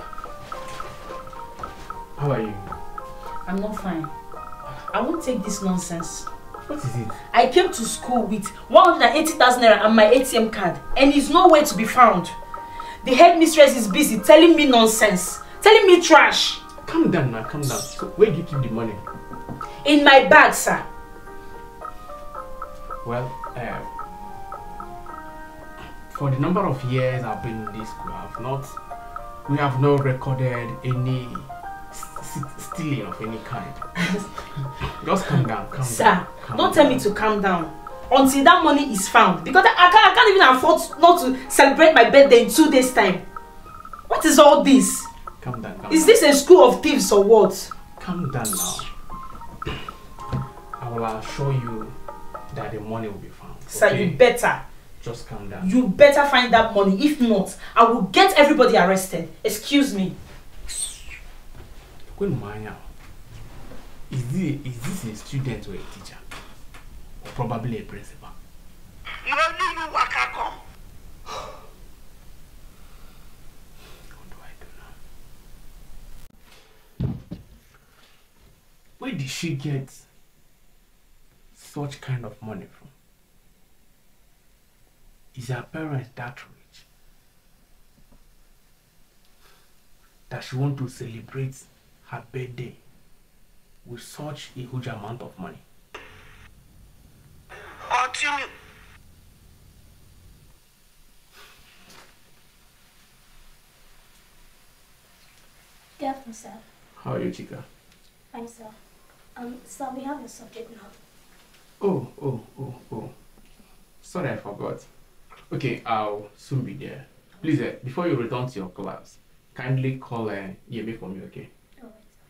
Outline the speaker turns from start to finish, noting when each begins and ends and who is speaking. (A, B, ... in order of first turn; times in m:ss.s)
0:02.2-0:02.8 A
0:03.4-0:04.1 B
0:04.7-0:06.3 B
0:06.7-0:07.1 A
0:07.1-0:12.3 B
0:13.0-0:16.6 B
0:16.7-0:19.0 A
0:19.7-0:20.8 B
0:23.0-0:23.9 A
0:25.8-0:28.8 A
0:29.4-0:34.2 A
0:34.7-0:37.0 A
0:35.8-0:43.2 B
0:44.1-0:45.1 B
0:45.4-0:46.2 A
0:45.9-0:47.7 B
0:48.0-0:48.9 A
0:50.8-0:52.0 A
0:52.5-0:54.2 A
0:53.7-0:54.6 B
0:55.0-0:55.7 A
0:55.6-1:00.1 B
1:02.0-1:02.9 A
1:04.1-1:06.3 A
1:07.2-1:08.3 A
1:09.1-1:10.6 C
1:14.0-1:14.9 A
1:19.0-1:20.1 A
1:21.5-1:22.9 A
1:25.3-1:26.8 A
1:30.3-1:32.8 A
1:33.8-1:35.6 A
1:37.8-1:38.5 C
1:46.0-1:46.6 D
1:46.9-1:47.7 A
1:48.3-1:48.8 D
1:49.4-1:50.9 D
1:51.8-1:53.2 A
1:54.0-2:01.5 A
2:01.8-2:02.0 D